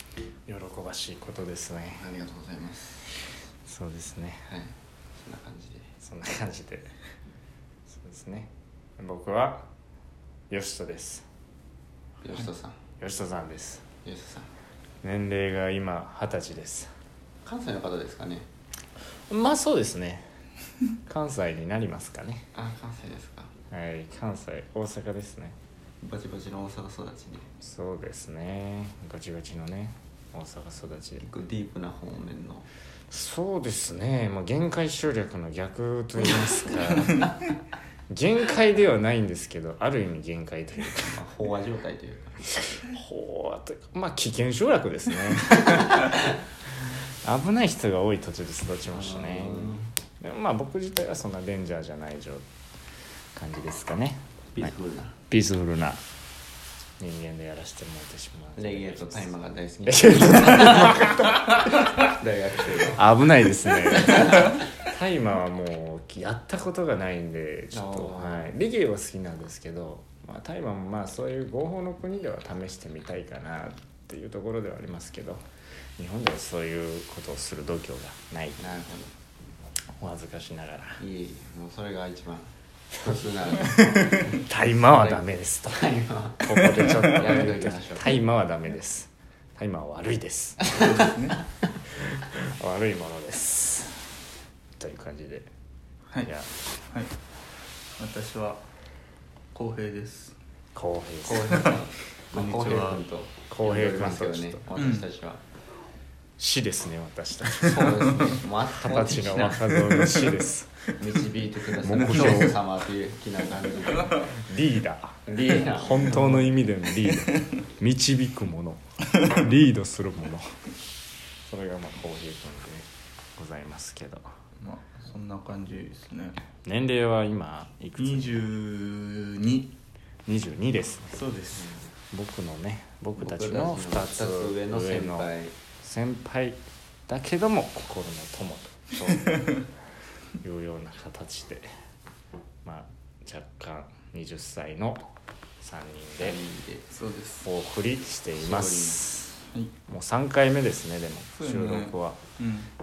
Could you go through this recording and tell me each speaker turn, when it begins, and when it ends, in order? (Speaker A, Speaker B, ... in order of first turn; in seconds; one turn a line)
Speaker A: 0.5-2.1
Speaker B: 2.0-3.1
Speaker A: 3.7-4.5
Speaker B: 4.5-5.9
Speaker A: 6.0-6.9
Speaker A: 7.9-9.7
Speaker A: 10.5-11.2
Speaker B: 12.2-12.8
Speaker A: 13.0-13.9
Speaker B: 14.0-14.5
Speaker A: 15.0-16.9
Speaker B: 17.4-18.5
Speaker A: 19.3-20.3
Speaker A: 21.1-22.5
Speaker B: 22.5-23.5
Speaker A: 23.7-25.6
Speaker B: 26.0-27.5
Speaker A: 27.6-31.3
Speaker B: 31.2-32.7
Speaker A: 33.1-37.3
Speaker B: 36.4-37.3
Speaker A: 38.1-41.2
Speaker B: 41.0-42.5
Speaker A: 42.7-46.2
Speaker B: 45.6-46.2
Speaker A: 46.8-52.5
Speaker B: 48.9-49.9
Speaker A: 53.4-54.7
Speaker B: 54.5-55.2
Speaker A: 55.3-56.0
Speaker A: 57.0-62.1
Speaker B: 58.5-63.0
Speaker A: 62.9-75.5
Speaker B: 63.9-64.5
Speaker B: 67.7-68.5
Speaker A: 76.0-78.9
Speaker B: 78.6-79.1
Speaker A: 80.0-81.0
Speaker B: 81.0-88.2
Speaker A: 83.0-91.0
Speaker C: 83.8-84.2
Speaker C: 90.7-91.4
Speaker A: 91.9-94.1
Speaker A: 94.8-95.5
Speaker A: 96.2-96.5
Speaker C: 98.0-98.6
Speaker C: 99.5-100.4
Speaker A: 100.8-101.8
Speaker B: 101.2-105.4
Speaker C: 101.5-101.8
Speaker C: 102.3-103.0
Speaker A: 103.5-104.6
Speaker C: 104.8-105.1
Speaker A: 106.4-110.9
Speaker B: 107.6-110.0
Speaker C: 107.7-108.3
Speaker B: 111.0-114.3
Speaker A: 111.8-112.6
Speaker C: 111.9-112.6
Speaker C: 113.9-114.2
Speaker A: 114.3-120.5
Speaker B: 115.3-116.6
Speaker A: 121.5-124.3
Speaker C: 124.6-126.4
Speaker A: 126.6-128.5
Speaker C: 128.0-129.7
Speaker A: 130.3-131.2
Speaker C: 131.1-131.7
Speaker B: 131.6-131.9
Speaker A: 132.1-135.3
Speaker B: 133.2-135.6
Speaker A: 135.8-139.5
Speaker A: 140.4-141.7
Speaker A: 142.7-145.1
Speaker A: 145.6-146.4
Speaker B: 146.2-146.9
Speaker C: 146.9-147.5
Speaker A: 147.4-152.2
Speaker B: 148.4-149.0
Speaker C: 151.4-152.7